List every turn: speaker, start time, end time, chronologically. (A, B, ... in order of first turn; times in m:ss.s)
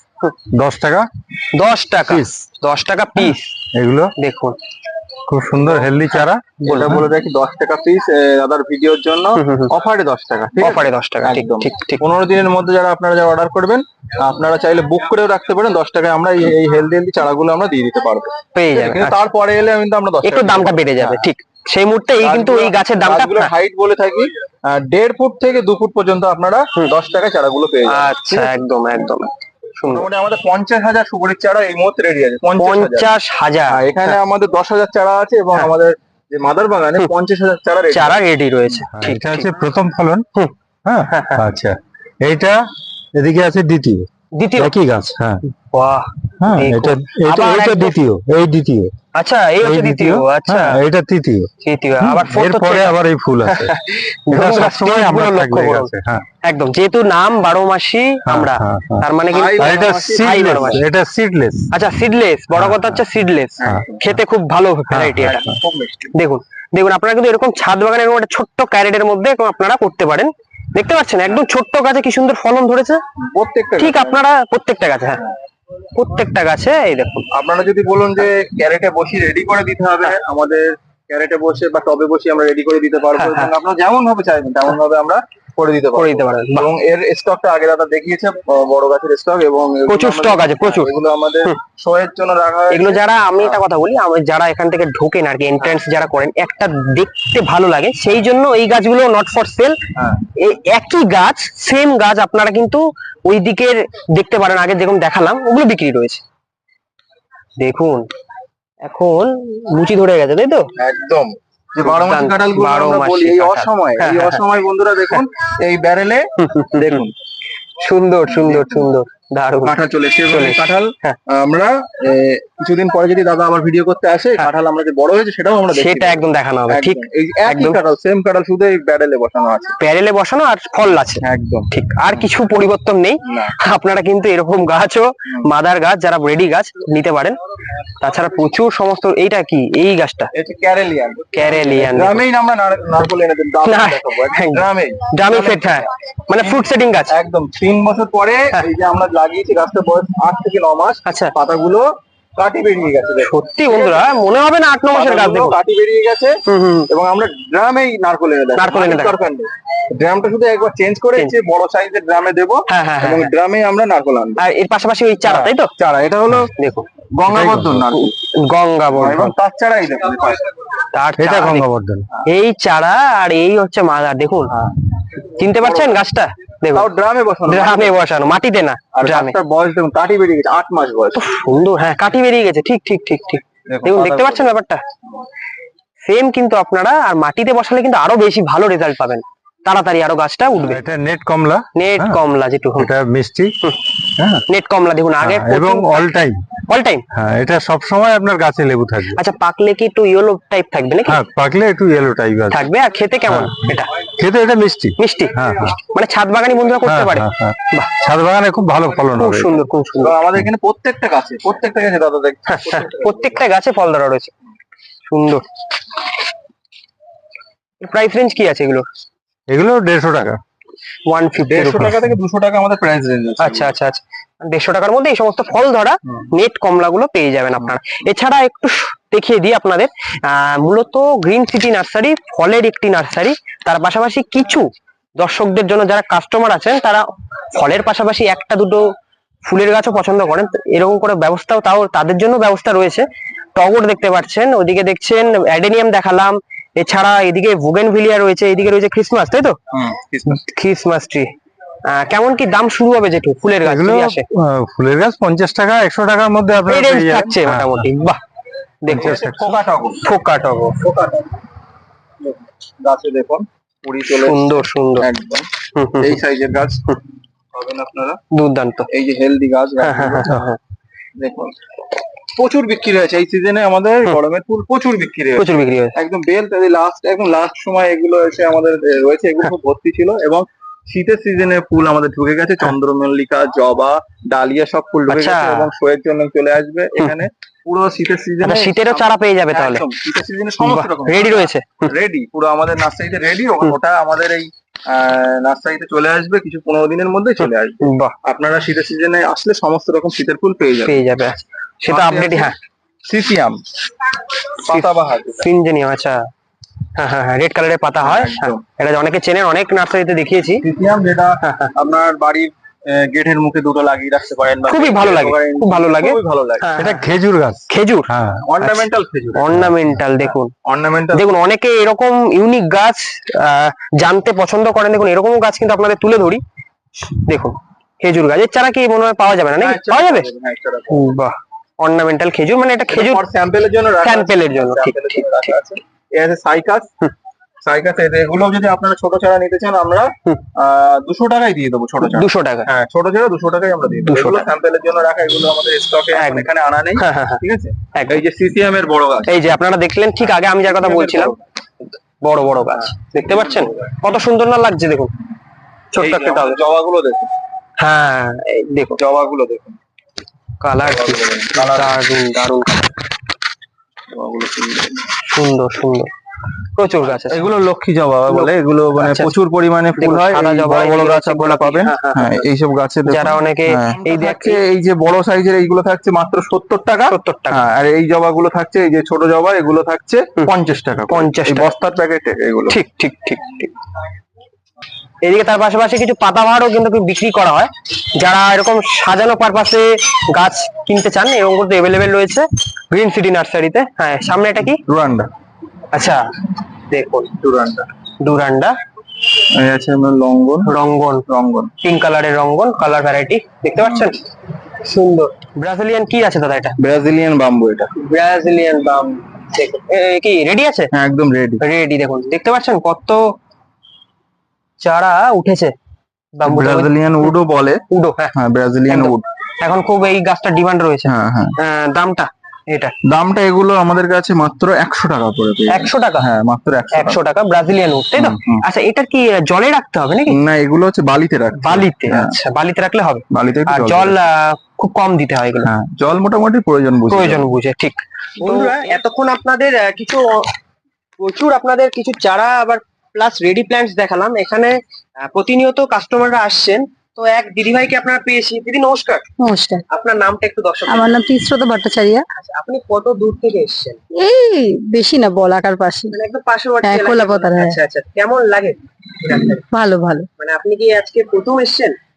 0:00.5-0:01.1 A
0:01.5-0:03.5 B
0:02.0-0:02.4 A
0:03.2-0:04.1 A
0:04.2-0:04.6 B
0:05.3-0:06.6 A
0:06.6-0:21.3 C
0:06.6-0:07.0 B
0:09.4-0:09.7 B
0:10.6-0:12.0 B
0:18.5-0:19.2 B
0:20.2-0:23.5 B
0:22.2-0:28.5 C
0:27.9-0:30.1 B
0:29.9-0:33.1 C
0:32.6-0:33.8 B
0:33.7-0:38.2 C
0:37.9-0:39.5 B
0:38.9-0:40.2 A
0:40.8-0:45.4 A
0:41.1-0:41.4 B
0:44.3-0:44.7 B
0:45.7-0:48.0 B
0:46.4-0:48.9 A
0:49.1-0:50.8 B
0:49.6-0:53.8 A
0:51.6-0:53.0 B
0:53.5-0:55.9 B
0:54.3-0:56.2 A
0:56.4-1:00.8 B
0:58.2-0:59.0 A
0:59.3-1:00.8 C
0:59.6-1:01.7 A
1:01.7-1:05.4 B
1:02.5-1:03.0 A
1:03.6-1:04.0 C
1:03.6-1:04.2 A
1:04.9-1:05.6 A
1:05.2-1:06.1 C
1:06.1-1:13.0 B
1:13.2-1:14.2 C
1:13.8-1:15.2 B
1:15.9-1:17.3 B
1:17.3-1:33.6 C
1:23.1-1:23.5 B
1:25.9-1:26.7 B
1:29.9-1:30.9 B
1:32.7-1:39.8 B
1:40.4-1:46.2 B
1:47.6-1:48.1 B
1:48.8-1:50.6 B
1:50.8-1:57.1 C
1:51.8-1:54.4 B
1:56.4-1:57.0 B
1:57.8-1:59.7 B
1:58.3-1:58.9 C
1:59.6-2:09.8 C
2:00.3-2:01.2 B
2:05.7-2:07.8 B
2:09.8-2:17.4 B
2:11.2-2:12.3 C
2:13.3-2:13.5 C
2:18.0-2:20.3 B
2:20.3-2:25.9 C
2:21.3-2:22.2 B
2:23.6-2:27.1 B
2:26.4-2:31.8 C
2:31.0-2:31.3 B
2:32.4-2:34.1 C
2:33.2-2:35.6 B
2:34.9-2:36.3 C
2:36.5-2:36.9 B
2:36.9-2:44.4 C
2:38.6-2:39.2 B
2:42.7-2:43.3 B
2:44.4-2:45.7 B
2:45.2-2:46.5 C
2:46.5-2:46.8 B
2:47.1-2:48.1 C
2:47.3-2:47.8 A
2:47.9-2:49.3 B
2:48.9-2:50.5 C
2:50.9-2:51.7 B
2:51.2-2:52.0 A
2:52.2-2:54.5 B
2:54.5-2:54.7 C
2:55.2-2:56.9 B
2:55.5-2:56.0 C
2:56.7-2:58.0 C
2:57.5-2:59.3 B
2:58.9-3:01.2 C
3:01.1-3:04.8 B
3:03.7-3:04.5 C
3:06.0-3:10.8 B
3:10.6-3:12.2 A
3:11.7-3:12.9 B
3:12.8-3:13.5 A
3:14.2-3:14.4 A
3:14.5-3:16.1 B
3:15.2-3:16.4 A
3:16.7-3:17.0 B
3:17.1-3:19.2 A
3:19.1-3:21.2 B
3:21.1-3:22.7 A
3:22.5-3:23.9 B
3:23.3-3:23.5 A
3:24.2-3:25.8 A
3:25.0-3:27.9 B
3:25.6-3:26.9 C
3:26.8-3:29.6 A
3:29.1-3:30.2 B
3:30.0-3:33.4 C
3:32.5-3:34.3 B
3:35.1-3:35.4 B
3:37.8-3:38.8 B
3:39.5-3:40.4 A
3:41.1-3:41.9 B
3:41.4-3:43.7 C
3:43.4-3:58.9 B
3:59.4-4:03.0 B
4:03.5-4:09.6 B
4:09.7-4:10.4 C
4:10.3-4:11.3 B
4:11.9-4:14.2 B
4:13.6-4:17.9 A
4:16.6-4:18.2 B
4:18.8-4:19.2 B
4:18.9-4:19.5 A
4:18.9-4:20.0 C
4:20.0-4:20.8 B
4:20.8-4:21.3 C
4:22.2-4:25.5 C
4:24.1-4:25.1 B
4:25.7-4:26.2 B
4:26.0-4:26.8 C
4:27.5-4:28.2 C
4:28.3-4:28.9 B
4:28.9-4:30.5 C
4:29.8-4:30.6 B
4:31.2-4:31.5 C
4:32.4-5:01.0 C
4:35.4-4:35.9 B
4:45.1-4:45.7 B
4:48.4-4:49.8 B
4:50.6-4:51.9 B
4:57.4-4:58.1 B
5:00.8-5:02.5 B
5:01.9-5:02.5 C
5:03.0-5:03.6 C
5:04.6-5:05.5 C
5:04.6-5:06.3 B
5:06.9-5:10.6 B
5:08.0-5:08.6 C
5:10.6-5:16.7 C
5:11.4-5:11.7 B
5:14.7-5:17.1 B
5:16.8-5:18.4 A
5:17.7-5:18.1 B
5:18.4-5:19.6 C
5:18.6-5:20.5 B
5:20.2-5:21.3 C
5:21.1-5:26.4 B
5:27.1-5:30.3 B
5:29.6-5:31.0 C
5:30.9-5:33.2 B
5:32.9-5:36.9 C
5:34.0-5:35.5 B
5:37.6-5:49.3 C
5:42.0-5:42.7 B
5:44.0-5:44.5 B
5:46.1-5:47.4 B
5:47.9-5:48.2 B
5:49.3-5:51.3 B
5:50.3-5:51.4 C
5:52.2-5:55.1 B
5:52.7-5:53.9 C
5:55.9-5:56.6 B
5:56.0-5:57.3 C
5:57.8-5:59.0 B
5:58.9-5:59.8 C
6:00.6-6:02.9 B
6:00.8-6:02.0 C
6:04.1-6:05.0 C
6:05.2-6:06.1 B
6:06.7-6:07.4 B
6:07.1-6:22.8 C
6:08.3-6:09.3 B
6:10.0-6:12.4 B
6:13.1-6:14.6 B
6:17.1-6:17.6 B
6:21.1-6:21.7 B
6:22.7-6:23.7 B
6:25.2-6:34.8 B
6:34.8-6:35.3 C
6:35.9-6:36.2 B
6:36.9-6:37.3 B
6:37.4-6:37.8 C
6:38.2-6:38.7 B
6:39.5-6:40.7 C
6:40.6-6:41.2 B
6:41.3-6:41.7 C
6:41.8-6:44.2 B
6:43.8-6:44.1 C
6:44.8-6:46.8 B
6:46.8-6:47.9 C
6:48.0-6:50.9 B
6:50.9-6:51.6 C
6:51.6-6:53.2 B
6:54.8-6:55.7 B
6:56.4-6:57.3 B
6:56.4-6:57.8 C
6:57.9-6:58.3 B
6:58.3-6:59.2 C
6:58.9-7:02.9 B
7:01.0-7:01.5 C
7:03.1-7:07.2 C
7:05.7-7:06.3 B
7:06.9-7:10.4 B
7:08.1-7:08.6 C
7:10.3-7:12.4 C
7:11.6-7:15.7 B
7:13.3-7:14.2 C
7:15.6-7:17.5 C
7:17.1-7:20.5 B
7:18.4-7:18.9 C
7:21.2-7:29.3 B
7:29.4-7:29.8 D
7:29.9-7:31.3 B
7:30.9-7:32.2 D
7:32.4-7:34.0 B
7:34.2-7:36.1 D
7:36.1-7:39.6 B
7:36.8-7:37.8 D
7:39.7-7:40.3 D
7:40.4-7:42.0 B